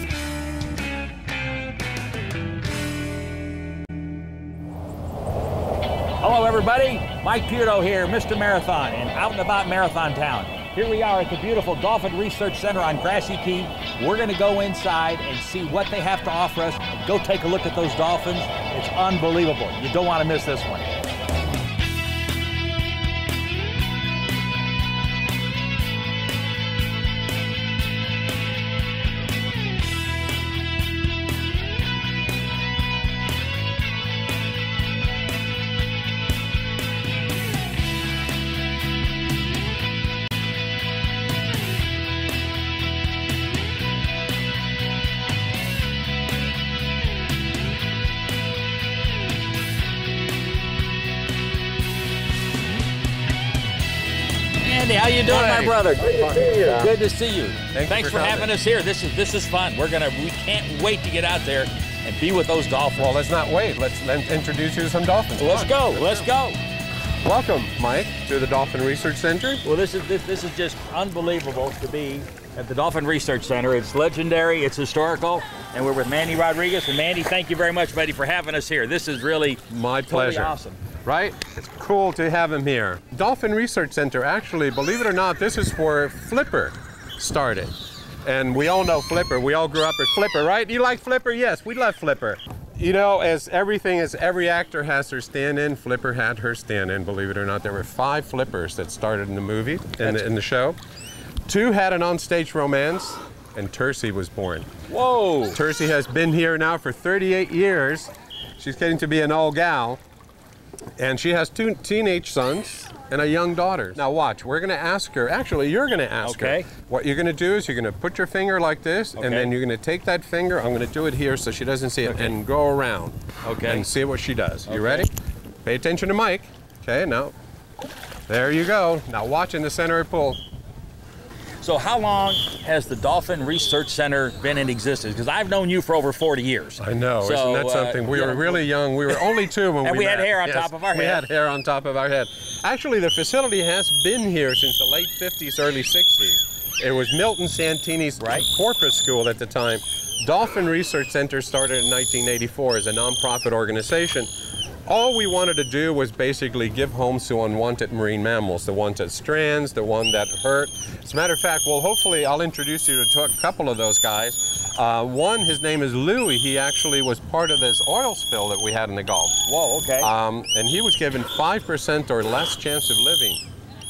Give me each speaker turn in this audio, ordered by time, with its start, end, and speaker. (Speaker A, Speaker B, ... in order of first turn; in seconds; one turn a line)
Speaker A: 6.2-20.9
Speaker A: 54.6-63.1
Speaker B: 55.3-55.7
Speaker B: 57.7-58.5
Speaker B: 63.0-66.3
Speaker A: 65.4-66.6
Speaker B: 67.2-69.6
Speaker A: 69.6-80.8
Speaker B: 79.7-87.7
Speaker B: 88.2-100.8
Speaker B: 101.5-104.7
Speaker A: 104.9-105.6
Speaker B: 105.5-110.0
Speaker B: 111.0-125.1
Speaker A: 116.2-116.7
Speaker A: 119.2-119.5
Speaker A: 122.0-122.3
Speaker A: 123.4-123.9
Speaker A: 124.7-125.1
Speaker B: 125.7-127.3
Speaker B: 128.3-130.4
Speaker A: 131.6-139.2
Speaker B: 136.8-154.3
Speaker A: 139.8-141.2
Speaker A: 148.2-148.5
Speaker B: 154.9-169.4
Speaker A: 169.5-170.1
Speaker B: 170.0-173.4